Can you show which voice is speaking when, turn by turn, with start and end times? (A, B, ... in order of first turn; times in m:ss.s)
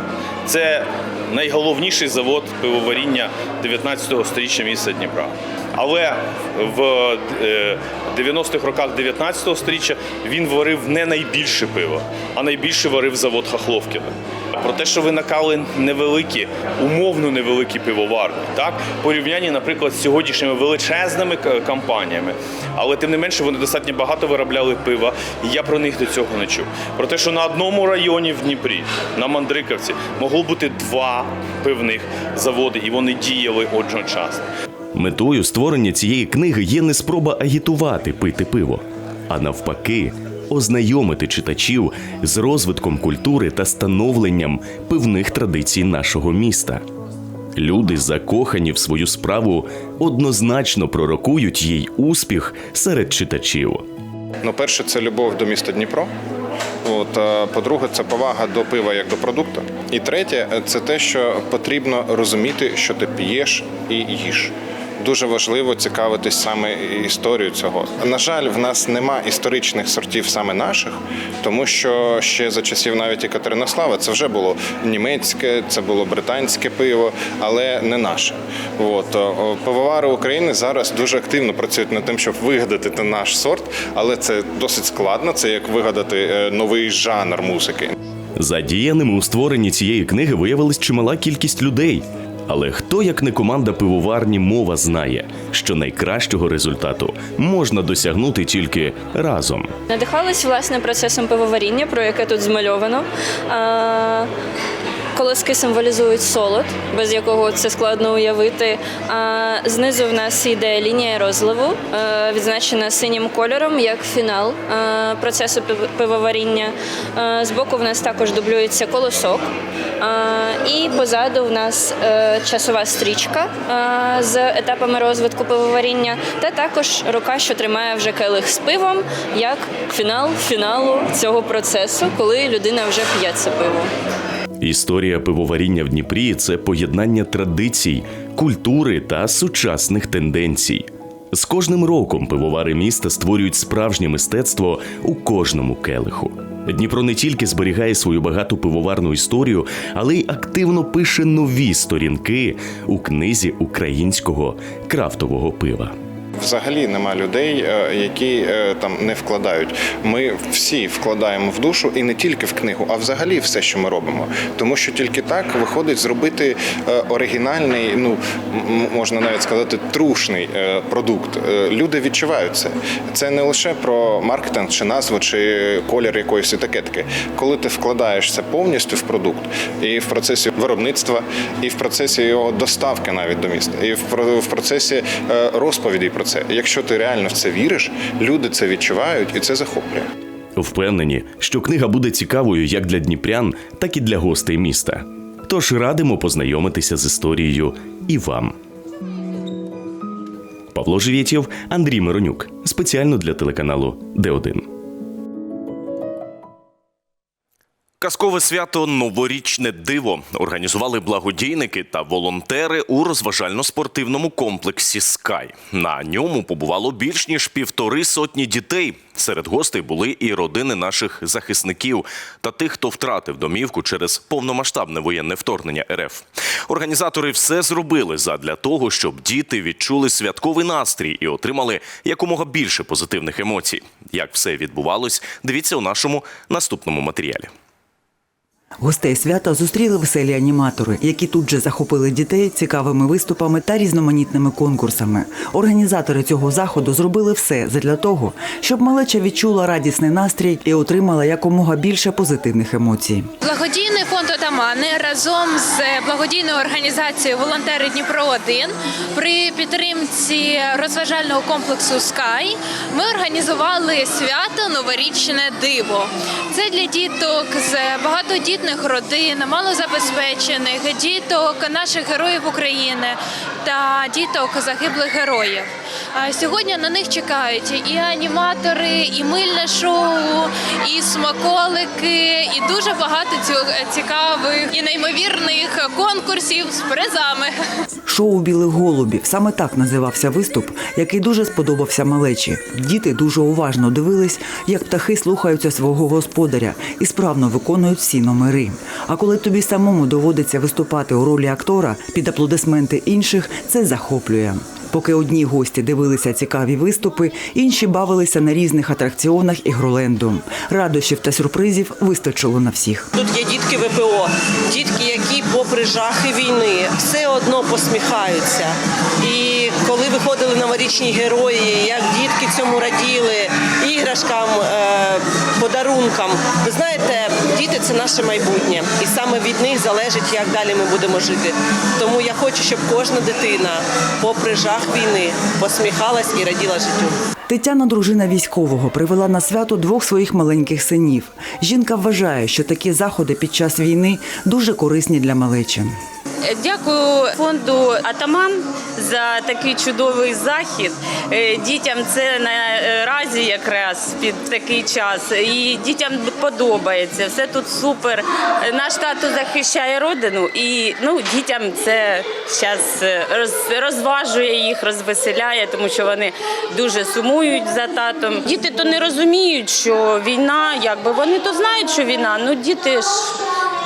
0:00.5-0:34.4 A
0:34.9-0:46.8 B
0:47.6-0:53.8 B
0:54.4-0:56.1 C
0:56.8-1:28.0 C
1:28.4-1:39.7 B
1:39.9-1:44.3 D
1:45.2-1:59.5 D
2:00.0-2:13.9 D
2:14.6-2:35.9 B
2:36.4-3:10.1 C
3:10.6-3:18.6 B
3:20.7-3:24.7 B
3:28.0-3:57.5 B
3:58.8-4:13.3 E
4:13.4-4:47.5 F
4:48.1-5:13.1 E
5:13.2-5:37.2 G
5:37.5-5:46.0 E
5:46.4-6:13.4 H